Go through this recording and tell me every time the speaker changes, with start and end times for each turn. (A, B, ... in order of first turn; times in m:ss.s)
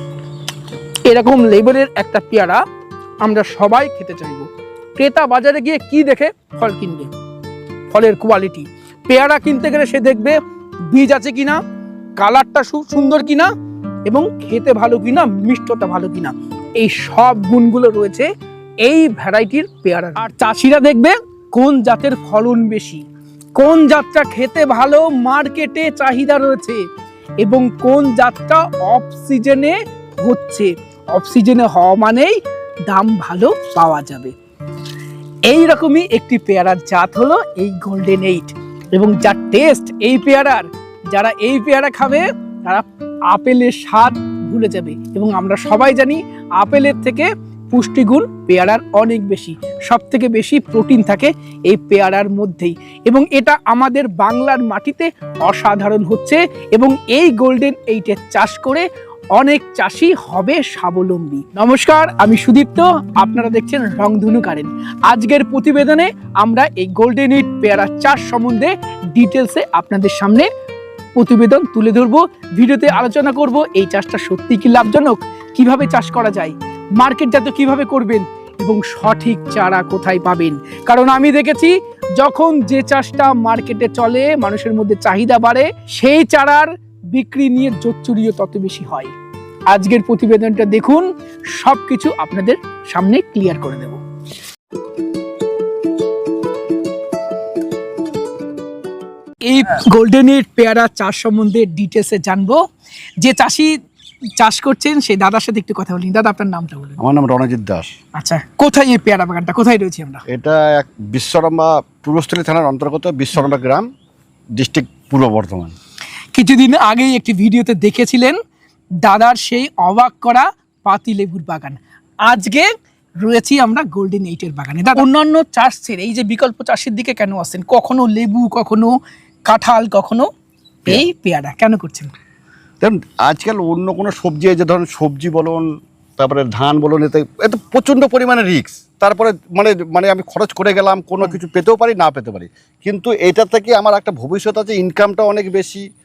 0:01.0-0:02.6 A
0:03.2-0:07.1 A
0:07.9-0:10.4 A
0:10.9-0:11.6 A
0:12.2-0:13.5 A
0:14.0-0:18.3 A
0:18.8-0:23.0 A
0:23.6-0:26.8 A
0:27.4-0:32.4 A
0:32.9-0:34.3 A
0:35.5-1:10.5 A
1:11.2-1:29.1 A
1:29.7-1:34.0 A
1:39.4-1:42.6 A
1:43.2-1:43.7 A
1:44.4-1:47.0 A
1:47.0-1:47.9 B
1:48.2-1:50.2 A
1:50.3-1:53.9 B
1:54.6-1:55.7 B
1:56.3-1:58.4 A
1:59.0-2:02.7 A
2:03.2-2:08.9 A
2:09.4-2:10.3 A
2:10.9-2:12.1 A
2:12.8-2:15.6 B
2:16.2-2:25.8 B